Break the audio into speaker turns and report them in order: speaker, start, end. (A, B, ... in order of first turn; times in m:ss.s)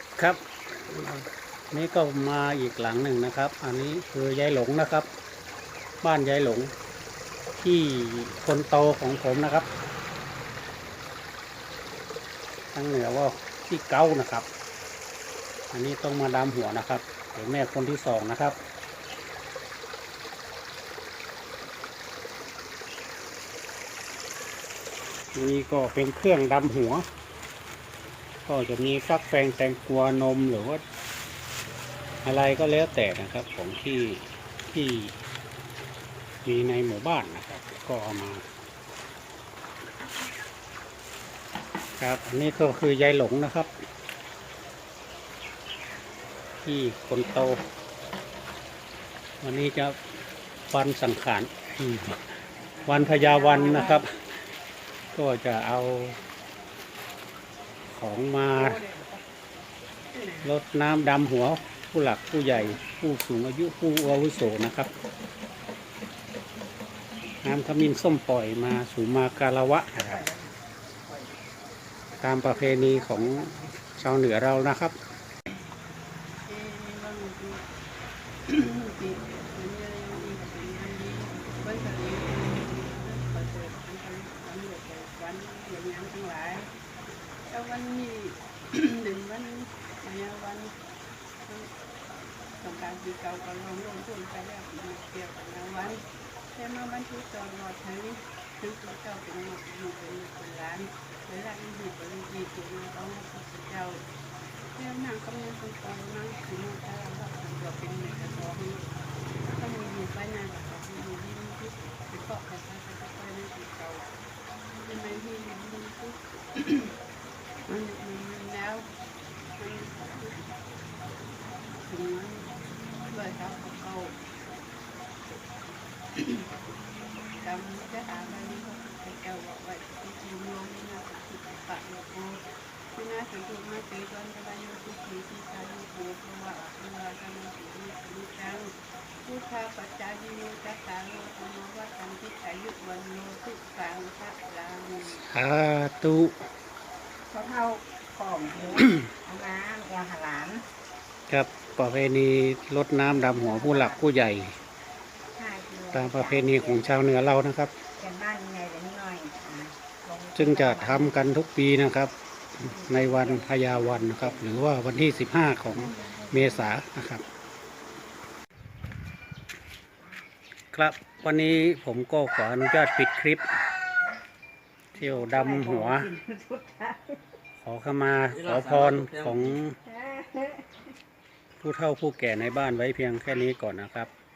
0:00.2-0:05.1 A
0:06.0-0:06.7 A
0:07.6-0:09.7 A
0:12.7-0:14.5 A
0:15.7-0:18.6 A
0:25.4-0:27.0 A
0:28.5-0:30.8 A
0:32.2-0:35.1 A
0:36.4-0:38.4 A
0:42.0-0:43.7 A
0:46.6-0:47.6 A
0:49.4-0:50.0 A
0:50.7-0:52.2 A
0:52.9-0:54.1 A
0:53.2-0:53.9 B
0:55.1-0:56.2 A
0:57.9-0:58.8 A
1:00.4-1:04.9 A
1:07.4-1:10.3 A
1:12.2-1:15.0 A
1:16.5-1:17.6 B
1:18.5-1:26.7 B
1:27.5-1:30.7 B
1:32.6-1:36.0 B
1:36.6-1:44.0 B
1:44.8-1:48.9 B
1:49.5-1:54.1 B
1:54.8-1:56.9 B
1:57.7-1:58.9 B
1:59.6-2:00.4 B
2:01.9-2:02.5 B
2:03.1-2:04.2 B
2:06.2-2:06.5 B
2:07.4-2:12.4 B
2:12.9-2:18.7 B
2:19.2-2:25.2 B
2:25.3-2:26.4 A
2:27.3-2:30.6 C
2:31.3-2:34.6 A
2:33.2-2:34.0 C
2:35.4-2:36.9 C
2:35.9-2:37.7 A
2:37.9-2:41.2 C
2:40.4-2:47.2 A
2:42.7-2:43.4 C
2:46.0-2:46.5 C
2:50.7-2:53.4 A
2:55.0-2:56.1 A
2:55.1-2:57.2 C
2:57.6-2:59.8 A
2:59.9-3:00.6 C
3:01.6-3:04.1 A